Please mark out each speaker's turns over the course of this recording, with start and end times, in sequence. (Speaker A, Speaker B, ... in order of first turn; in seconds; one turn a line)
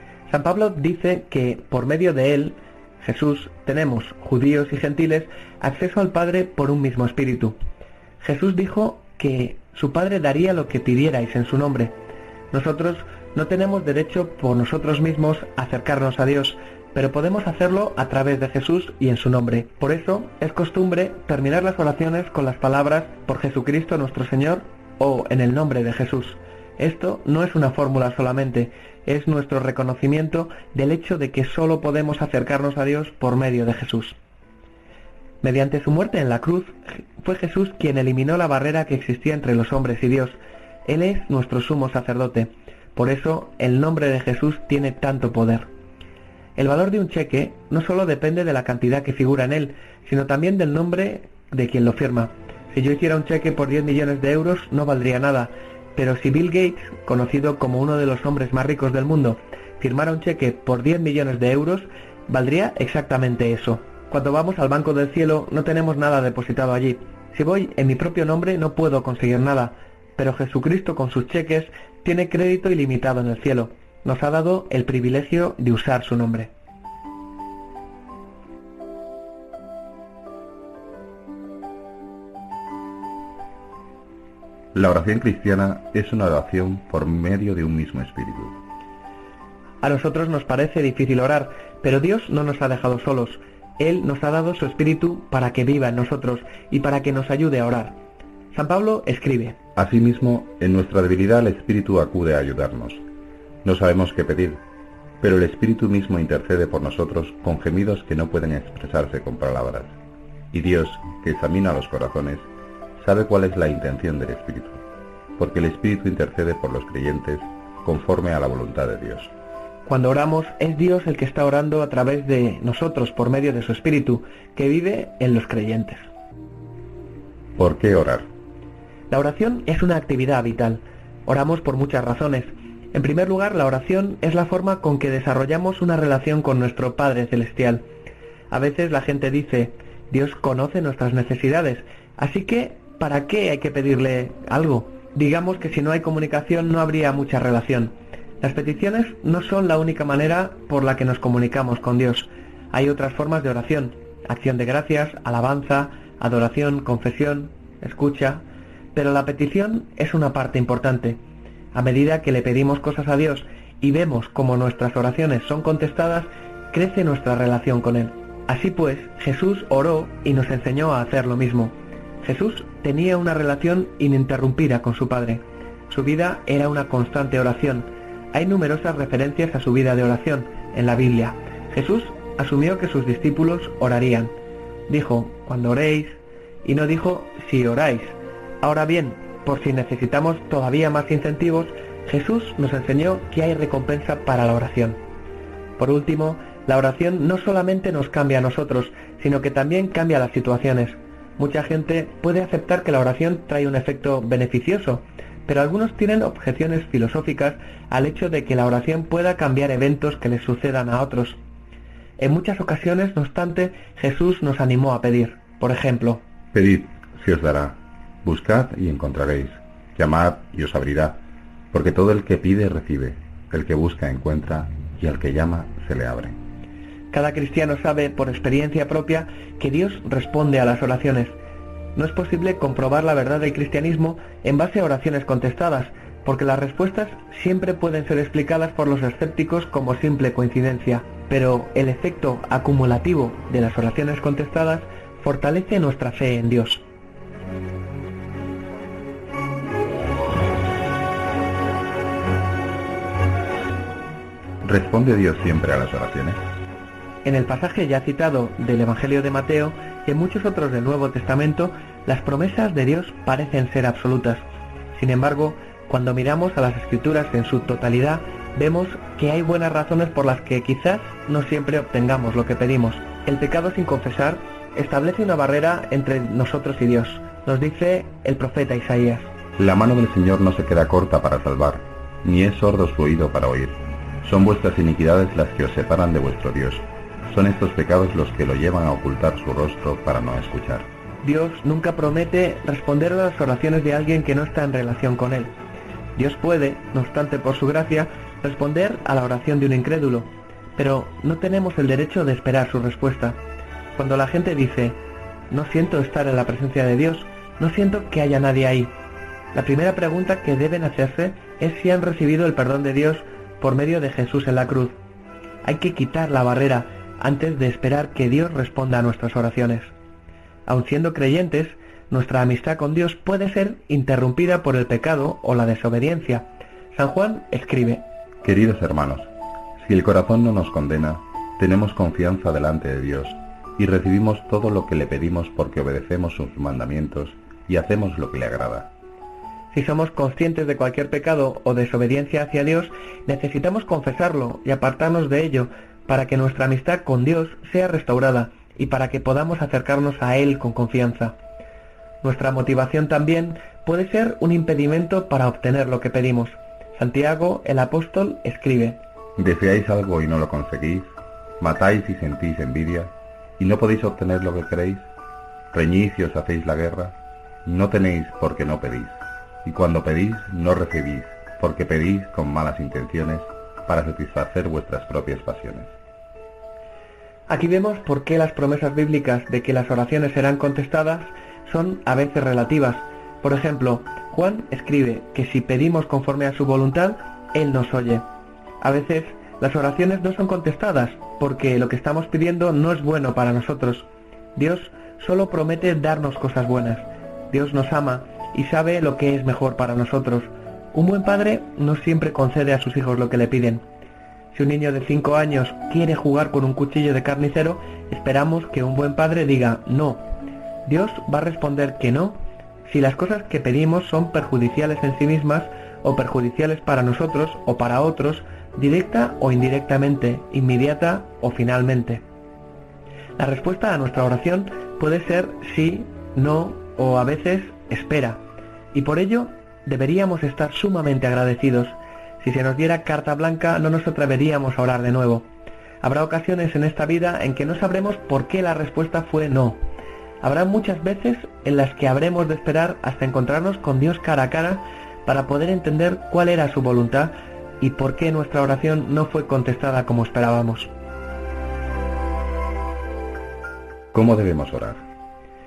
Speaker A: 0.3-7.6
Speaker A: 8.2-11.9
Speaker A: 12.5-34.2
Speaker A: 35.4-45.7
Speaker A: 46.6-76.5
Speaker B: 84.7-88.6
Speaker A: 89.8-98.0
Speaker A: 98.5-99.6
Speaker B: 99.8-103.0
Speaker B: 103.6-104.6
Speaker B: 105.2-110.0
Speaker B: 110.5-112.5
Speaker B: 113.0-114.8
Speaker B: 115.4-119.3
Speaker A: 119.9-126.1
Speaker B: 127.6-128.3
Speaker A: 129.1-137.8
Speaker A: 138.5-161.2
Speaker A: 161.7-184.3
Speaker A: 184.9-195.0
Speaker A: 195.8-211.4
Speaker A: 212.2-216.2
Speaker B: 216.5-226.4
Speaker A: 227.1-231.4
Speaker A: 232.0-246.8
Speaker B: 254.6-256.4
Speaker A: 257.2-264.4
Speaker A: 264.9-279.3
Speaker B: 279.6-290.9
Speaker A: 291.2-295.5
Speaker A: 296.2-303.4
Speaker A: 304.0-305.0
Speaker A: 305.5-308.9
Speaker A: 309.5-315.0
Speaker A: 315.6-319.9
Speaker A: 320.7-328.0
Speaker B: 328.4-338.9
Speaker A: 339.7-351.4
Speaker A: 352.2-359.0
Speaker B: 359.4-365.1
Speaker B: 365.7-375.9
Speaker A: 377.5-388.2
Speaker A: 388.8-403.8
Speaker A: 404.5-410.2
Speaker A: 410.9-422.2
Speaker A: 423.4-428.4
Speaker A: 428.9-435.5
Speaker A: 436.0-439.8
Speaker A: 440.4-450.9
Speaker B: 454.1-455.1